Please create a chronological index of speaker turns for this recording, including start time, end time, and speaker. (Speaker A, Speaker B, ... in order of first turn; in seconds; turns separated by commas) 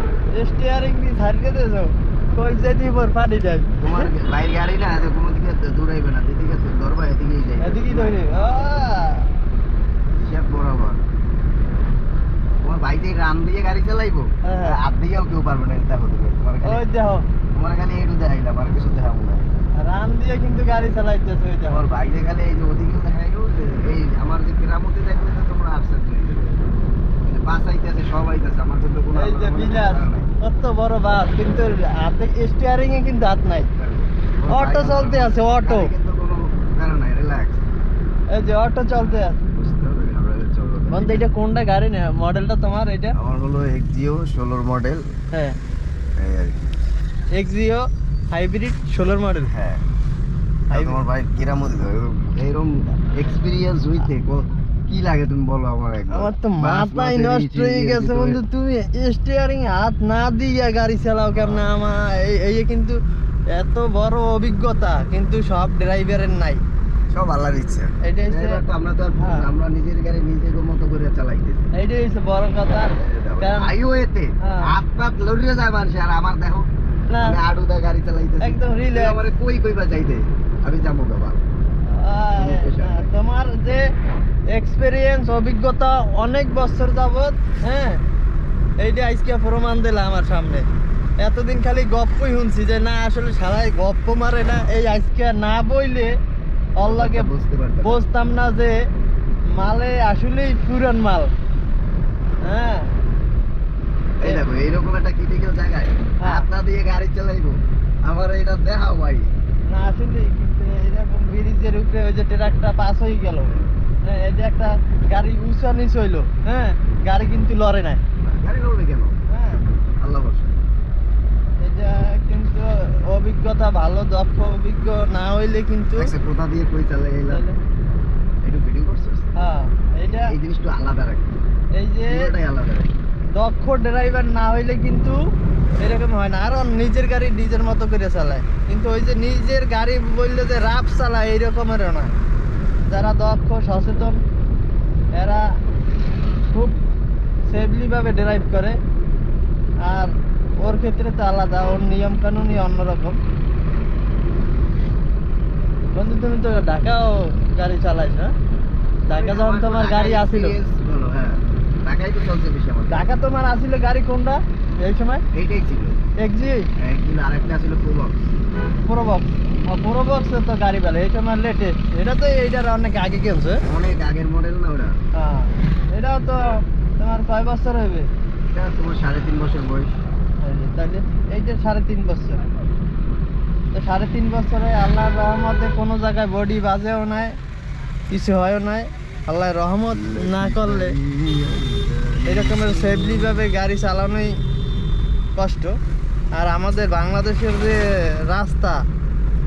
Speaker A: 0.3-4.1, Speaker B: 3.8-8.7, Speaker A: 7.6-9.3, Speaker B: 10.2-11.0, Speaker B: 12.6-16.8, Speaker A: 14.4-14.8, Speaker A: 16.6-17.3, Speaker B: 17.5-19.5, Speaker A: 19.8-21.8, Speaker B: 21.7-26.6, Speaker B: 27.2-30.3, Speaker A: 29.1-33.7, Speaker B: 33.7-37.6, Speaker A: 34.5-35.9, Speaker A: 38.3-39.4, Speaker B: 39.5-41.3, Speaker A: 40.9-43.2, Speaker B: 43.1-45.1, Speaker A: 45.3-45.6, Speaker B: 46.2-46.6, Speaker A: 47.3-49.5, Speaker B: 49.5-49.9, Speaker A: 50.7-51.0, Speaker B: 50.7-58.4, Speaker A: 56.1-63.0, Speaker B: 61.3-61.7, Speaker A: 63.5-66.6, Speaker B: 67.1-71.7, Speaker A: 68.0-68.6, Speaker A: 69.2-69.4, Speaker A: 71.7-73.7, Speaker B: 72.9-76.7, Speaker A: 74.4-74.7, Speaker A: 77.1-77.4, Speaker B: 77.2-81.4, Speaker A: 78.4-79.3, Speaker A: 81.9-83.9, Speaker B: 82.3-83.1, Speaker A: 84.5-88.0, Speaker A: 88.8-90.7, Speaker A: 91.2-96.1, Speaker A: 96.8-97.3, Speaker B: 96.8-98.0, Speaker A: 97.8-98.8, Speaker A: 99.5-101.3, Speaker A: 102.4-102.9, Speaker B: 104.2-109.3, Speaker A: 109.7-118.0, Speaker B: 113.5-113.8, Speaker B: 118.2-119.2, Speaker A: 119.3-119.6, Speaker B: 120.0-120.6, Speaker A: 121.6-126.1, Speaker B: 126.0-127.4, Speaker A: 127.3-127.6, Speaker B: 128.4-129.3, Speaker A: 129.4-130.3, Speaker B: 130.1-131.3, Speaker A: 131.8-132.3, Speaker B: 132.1-132.9, Speaker A: 133.3-135.2, Speaker A: 135.8-142.1, Speaker A: 142.9-144.2, Speaker A: 145.1-145.5, Speaker A: 146.5-146.8, Speaker A: 147.5-148.8, Speaker A: 149.8-153.2, Speaker A: 155.9-158.3, Speaker A: 159.1-160.5, Speaker B: 159.1-163.1, Speaker A: 162.9-165.2, Speaker B: 165.3-166.0, Speaker A: 166.2-166.7, Speaker B: 166.8-168.2, Speaker A: 168.8-173.6, Speaker B: 173.7-175.0, Speaker A: 175.1-178.1, Speaker B: 178.5-179.9, Speaker A: 180.4-182.5, Speaker A: 183.7-187.3, Speaker A: 188.1-191.0, Speaker B: 189.9-193.3, Speaker A: 192.2-194.3, Speaker A: 195.3-195.8, Speaker A: 196.3-198.8